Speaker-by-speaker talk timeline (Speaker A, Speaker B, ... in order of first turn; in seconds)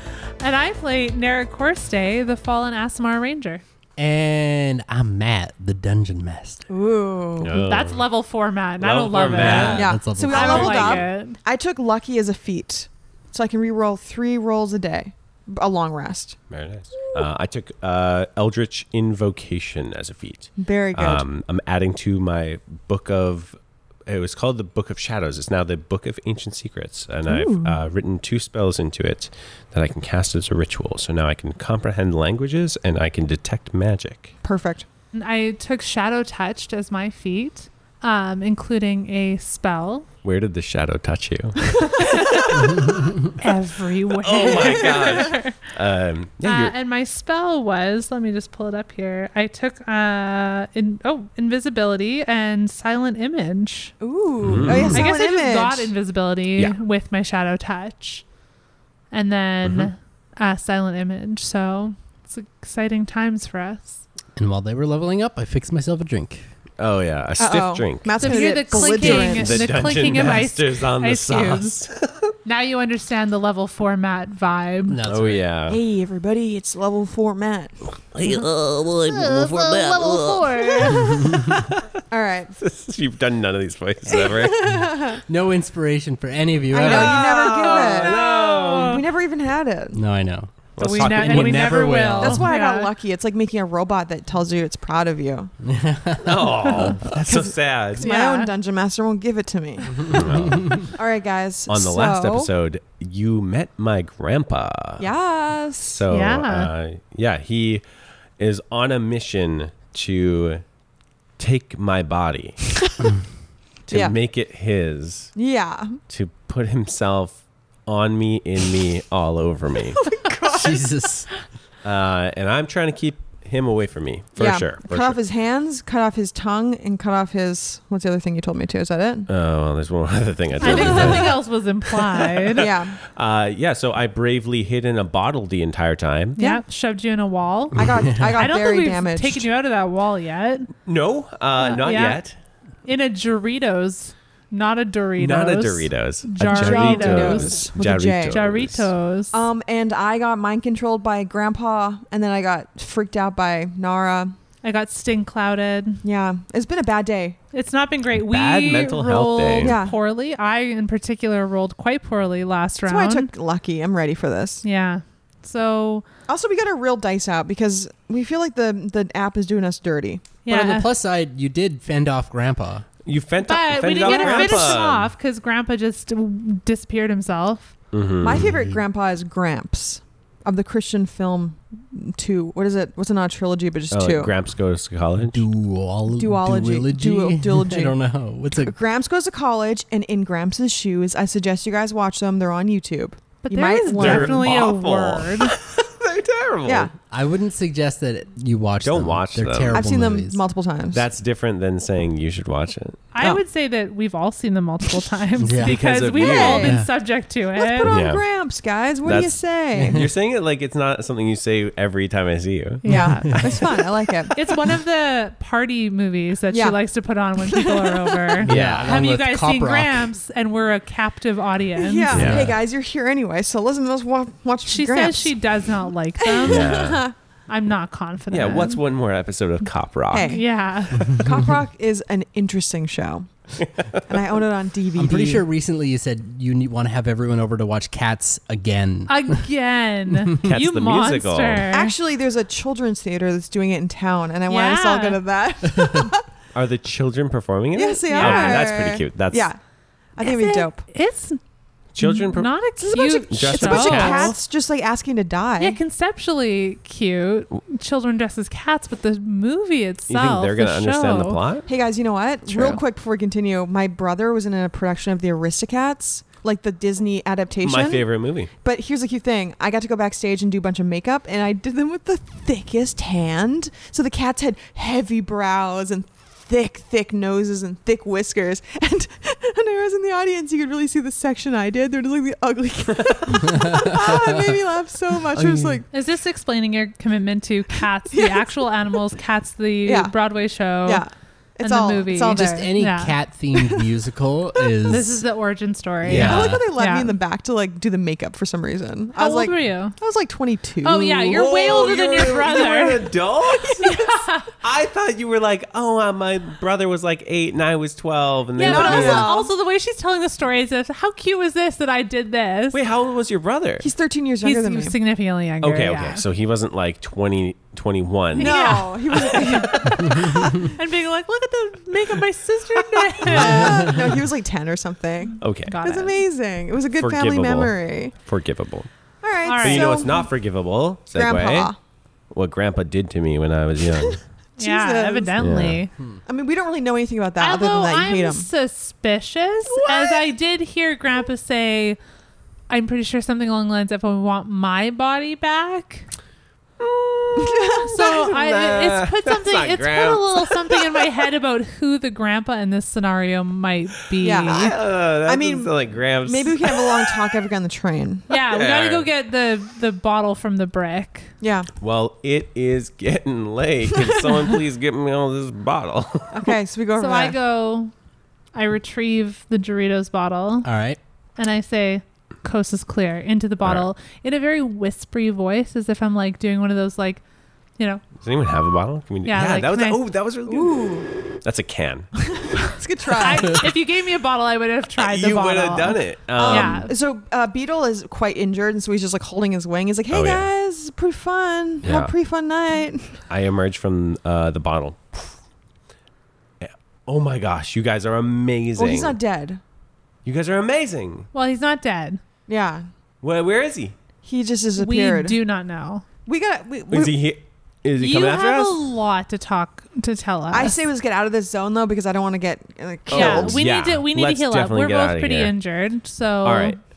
Speaker A: 0.4-3.6, 7.5-11.4, 35.1-40.1, 42.0-42.3, 43.4-45.6, 46.4-53.9, 54.9-58.2, 59.1-64.0, 68.2-71.8, 72.5-75.0, 79.0-81.2, 87.3-89.0, 90.8-92.9, 98.0-98.5, 106.1-106.7, 130.6-132.7, 136.4-140.7, 141.6-142.2, 142.8-147.6, 148.3-149.4, 154.6-156.0, 157.5-163.3, 164.6-166.1, 170.4-170.9, 173.4-177.7, 193.4-195.6, 203.1-207.9, 212.8-213.5, 214.3-222.1, 224.7-226.8, 227.5-228.8, 230.2-231.2, 239.1-241.9, 244.5-245.2, 248.1-248.7, 250.2-251.4, 252.0-254.3, 255.6-261.4, 262.5-262.8, 285.9-291.0, 291.6-293.1, 294.9-297.1, 299.1-299.9, 300.8-303.1, 303.8-304.5, 308.5-312.8, 314.4-316.2, 318.3-323.9, 325.7-326.2, 329.4-330.1, 334.6-335.9, 337.4-342.0, 342.7-346.1, 347.8-354.8, 358.3-361.3, 367.0-367.9, 368.5-370.7, 371.4-377.2, 377.8-378.0, 379.2-380.0, 383.2-386.9, 401.3-402.2, 404.8-406.0, 408.0-410.8, 413.1-416.8
Speaker B: 4.0-6.7, 9.2-11.0, 64.4-66.5, 74.9-75.5, 81.0-81.5, 85.1-87.2, 89.9-92.5, 95.6-97.0, 99.9-100.9, 120.5-121.3, 170.5-172.9, 178.3-178.8, 185.3-188.8, 197.1-200.4, 205.4-205.8, 206.5-206.9, 212.9-213.6, 218.4-220.1, 222.1-222.5, 234.9-239.4, 283.5-284.5, 285.3-285.8, 292.3-295.2, 296.0-296.6, 370.6-371.0
Speaker C: 6.7-7.5, 9.7-16.4, 20.6-21.2, 27.3-27.8, 34.4-34.9, 41.8-42.7, 44.4-45.3, 54.0-55.9, 67.4-69.8, 75.7-77.8, 80.8-81.6, 82.1-82.5, 84.1-85.2, 86.7-88.2, 88.8-90.0, 92.2-95.5, 96.8-100.2, 100.8-102.5, 105.0-106.0, 113.9-114.2, 115.4-116.0, 120.0-120.8, 124.4-129.3, 130.6-131.3, 132.6-133.0, 137.7-139.5, 146.5-148.4, 149.3-154.3, 156.0-157.4, 159.6-160.0, 162.9-164.6, 166.3-170.3, 173.9-174.8, 178.2-184.3, 186.1-188.0, 188.6-194.6, 196.6-196.9, 199.7-201.0, 206.2-206.7, 207.6-210.1, 212.8-214.8, 216.5-216.8, 217.4-218.3, 221.8-225.3, 226.2-227.1, 230.1-233.3, 234.1-235.4, 241.7-246.2, 247.8-249.6, 250.2-250.8, 252.8-255.8, 261.7-285.9, 288.1-288.6, 289.8-290.1, 290.8-292.6, 293.5-293.9, 296.2-301.4, 303.6-303.9, 308.6-309.5, 313.8-314.9, 318.4-320.3, 323.2-328.1, 329.2-330.3, 331.1-331.8, 334.0-335.4, 336.2-338.5, 339.7-340.2, 347.4-348.1, 354.2-355.7, 356.2-358.3, 361.4-361.7, 364.0-364.5, 366.3-367.4, 380.5-381.1, 382.2-383.7, 386.4-393.2, 398.8-399.6, 402.5-402.9, 404.2-405.4, 406.2-407.1, 410.5-413.6
Speaker D: 7.4-8.0, 8.8-9.9, 16.5-23.6, 24.1-34.3, 40.2-43.1, 44.2-46.7, 54.4-55.1, 59.6-59.9, 66.8-72.3, 75.1-75.8, 78.0-80.8, 82.6-84.7, 86.8-89.0, 90.8-91.8, 96.2-98.1, 100.1-100.8, 101.7-105.1, 105.8-107.8, 108.4-110.6, 111.4-112.6, 113.9-115.3, 116.1-120.2, 121.8-125.2, 129.3-131.4, 132.0-136.4, 140.8-142.3, 145.2-148.9, 158.1-159.8, 173.1-175.1, 177.9-178.5, 183.9-185.4, 193.9-196.9, 198.8-199.8, 200.9-203.1, 205.6-206.8, 207.8-208.2, 209.0-213.8, 218.4-219.0, 222.1-222.5, 226.5-227.0, 228.3-230.3, 240.4-241.7, 246.5-249.5, 251.9-254.4, 260.1-261.7, 267.6-268.5, 283.0-283.3, 296.1-296.6, 301.3-309.3, 312.7-313.9, 315.6-320.4, 325.4-325.8, 327.0-328.9, 329.6-331.7, 332.3-334.2, 335.4-335.8, 346.8-351.0, 354.4-357.2, 358.5-359.1, 361.8-366.5, 378.2-382.1, 385.0-386.9, 390.1-390.5, 391.8-392.1, 393.3-395.4, 396.6-399.2, 400.2-401.3, 403.2-403.9, 406.9-408.8, 413.1-415.5, 416.4-416.8